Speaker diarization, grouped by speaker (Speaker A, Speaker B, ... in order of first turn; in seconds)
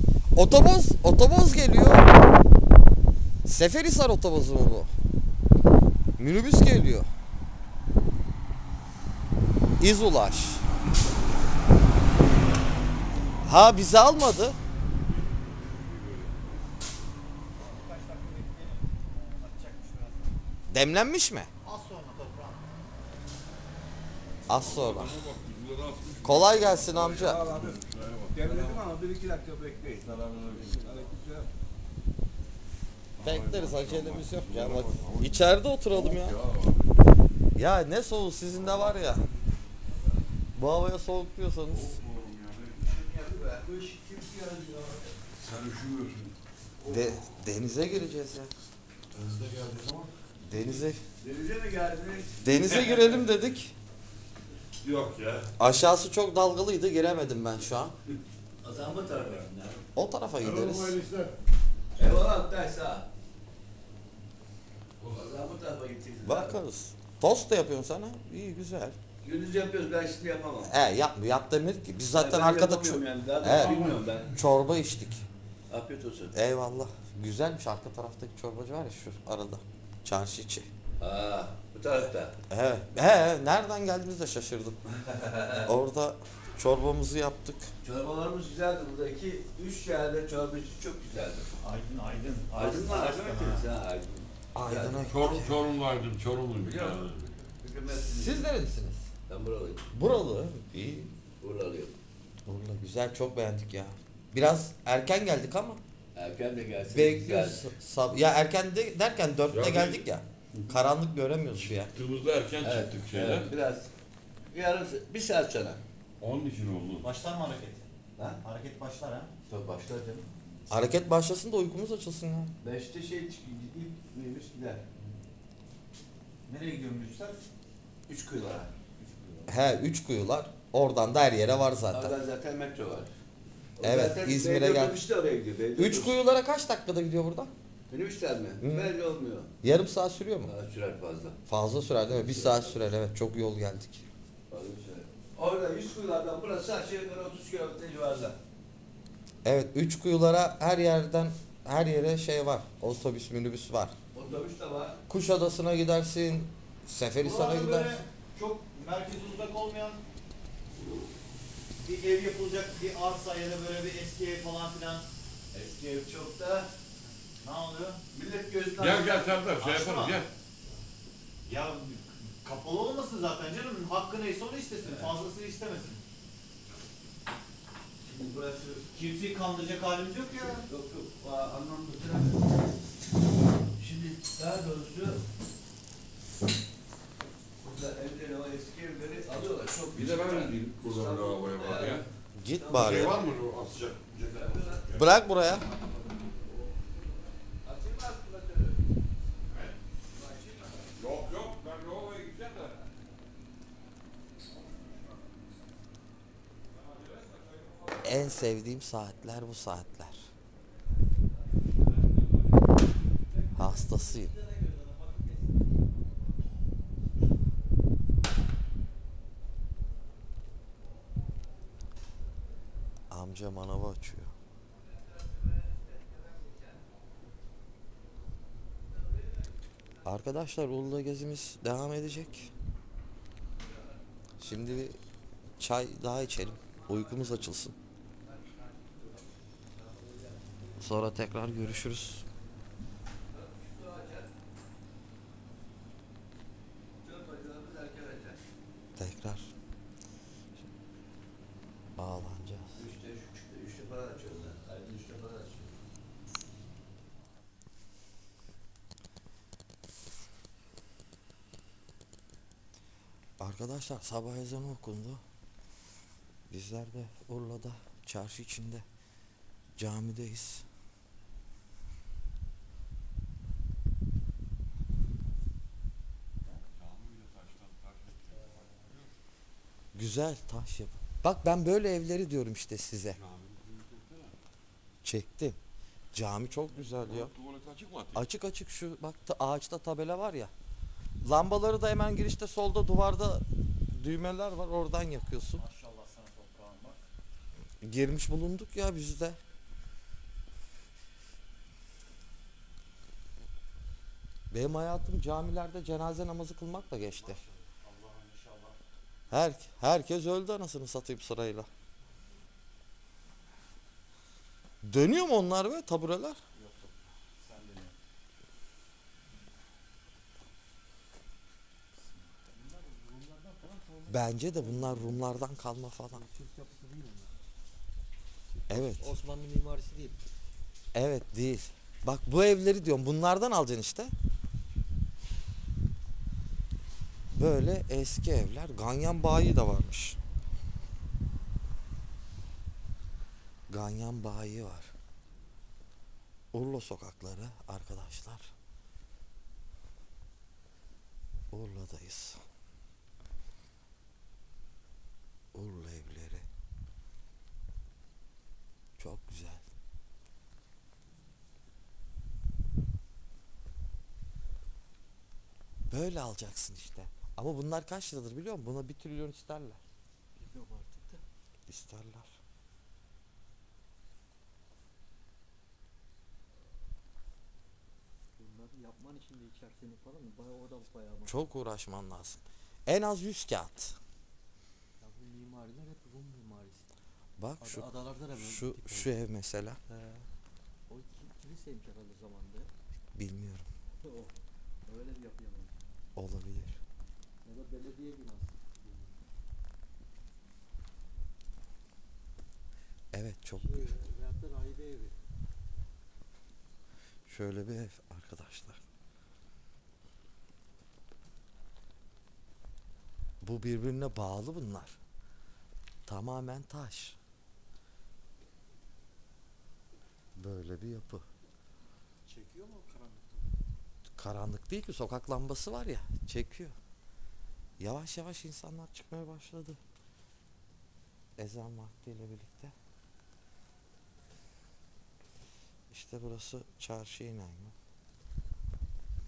Speaker A: 0.3-2.1, 3.4-4.9, 6.2-7.1, 9.8-10.7, 13.4-14.6, 20.7-21.5, 24.5-25.2, 26.2-27.5, 33.2-36.4, 37.5-39.2, 40.5-42.0, 46.8-48.5, 50.4-51.0, 52.4-53.7, 55.6-57.9, 59.9-61.0, 66.2-69.0, 70.6-75.2, 76.3-80.7, 82.5-84.8, 85.6-87.7, 94.5-95.6, 97.9-99.1, 99.9-101.1, 102.5-105.8, 106.9-111.9, 120.7-122.5, 129.5-132.2, 133.8-135.0, 135.8-137.5, 138.6-138.9, 139.6-140.5, 141.5-144.1, 149.4-153.9, 155.1-158.0, 192.3-193.2, 194.9-195.7, 208.0-210.3, 213.5-214.3, 223.1-224.3, 230.0-232.5, 234.4-235.0, 235.6-237.7, 240.8-242.2, 249.0-249.5, 252.0-252.8, 263.4-265.2, 266.5-268.9, 269.8-270.7, 279.9-283.2, 285.0-285.6, 286.1-287.3, 288.1-290.5, 291.2-295.6, 297.8-299.4, 304.5-307.4, 309.3-311.7, 314.8-316.4, 324.1-326.2, 328.7-329.2, 330.9-334.1, 337.3-340.2, 343.7-344.9, 346.5-348.5, 351.5-352.4, 355.5-356.4, 359.0-359.7, 365.9-369.8, 371.7-372.3, 381.2-384.0, 387.4-389.8, 393.1-393.7, 396.2-396.8, 403.1-403.9, 407.2-408.8, 413.4-415.0, 416.1-417.2, 420.4-421.2, 424.2-426.7, 427.8-429.8, 431.4-432.7, 435.9-437.7
Speaker B: 15.6-16.4, 24.5-28.8, 30.0-30.9, 33.2-36.8, 41.7-42.9, 45.4-46.3, 49.1-50.1, 52.6-52.9, 54.8-55.5, 60.6-61.2, 73.5-73.9, 95.0-97.2, 109.5-110.0, 111.5-113.5, 116.2-117.1, 168.8-170.3, 189.9-192.0, 192.7-195.1, 200.9-202.7, 276.7-279.1, 283.1-284.3, 287.0-288.2
Speaker C: 17.6-20.4, 21.6-22.6, 91.6-93.6, 117.0-117.9, 118.4-119.3, 126.5-127.4, 157.3-160.0, 161.8-165.1, 167.4-168.0, 169.6-170.2, 171.4-176.0, 178.9-180.6, 295.6-297.0, 307.7-308.7, 317.4-317.9
Speaker D: 27.2-27.8, 28.3-31.5, 42.5-45.1, 51.2-52.4, 58.6-59.9, 62.0-63.1, 65.1-66.6, 69.2-70.8, 72.1-74.3, 75.7-76.3, 81.0-82.3, 85.0-85.7, 87.8-91.5, 92.5-95.0, 96.6-98.5, 99.3-99.8, 101.4-102.0, 106.1-107.7, 112.6-113.9, 114.5-115.8, 119.5-120.3, 122.6-124.8, 128.1-129.4, 131.9-133.1, 133.8-136.2, 137.9-139.5, 140.4-141.4, 142.1-142.8, 144.5-148.4, 154.1-155.0, 165.5-166.7, 168.1-169.5, 174.8-175.2, 178.0-179.0, 180.3-182.5, 183.8-185.2, 187.6-193.4, 194.2-195.4, 197.6-198.8, 200.1-200.9, 233.6-234.0, 236.6-237.5, 238.2-240.6, 243.3-244.3, 247.0-248.4, 252.7-255.7
Speaker E: 213.6-215.4, 322.6-325.3, 326.1-327.4, 328.7-330.2, 370.4-371.2, 378.4-381.4, 385.0-386.9, 387.6-389.1, 389.9-390.3, 390.9-392.7, 394.0-394.3, 394.9-395.9, 397.4-399.2, 403.6-405.2, 422.2-423.6